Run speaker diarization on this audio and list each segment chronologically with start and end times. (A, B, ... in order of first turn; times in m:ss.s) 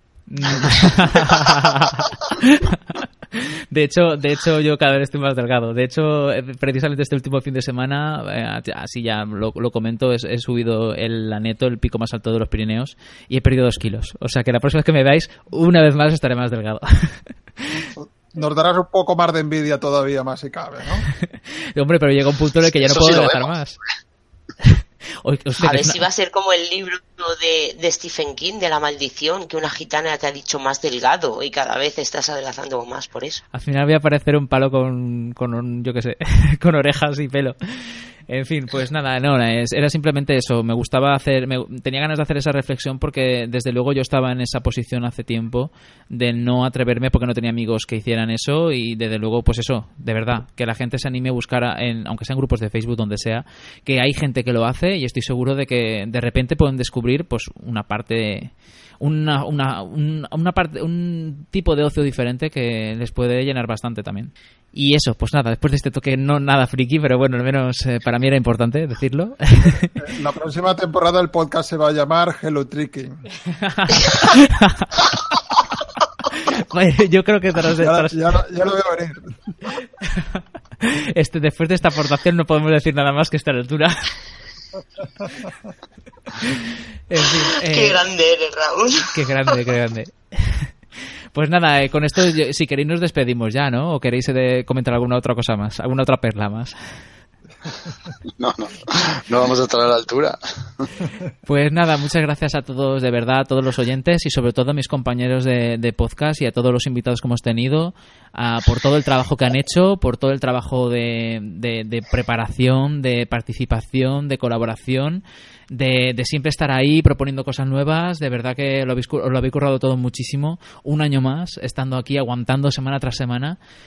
0:00.3-0:17.8 A
0:18.0-0:21.1 B
0:21.2-0:23.8 A
0:22.7-0:23.5 C
0:24.6-0:26.0 A
0:25.6-0:33.4 D
0:33.5-1:10.0 A
1:10.0-1:13.3 B
1:13.6-1:15.2 A
1:16.2-1:18.2 A
1:17.8-1:19.6 B
1:20.1-1:24.1 A
1:26.3-1:28.0 A
1:27.7-1:29.1 D
1:29.1-1:30.7 A
1:31.3-1:36.8 A
1:38.4-1:40.9 C
1:41.5-2:03.6 A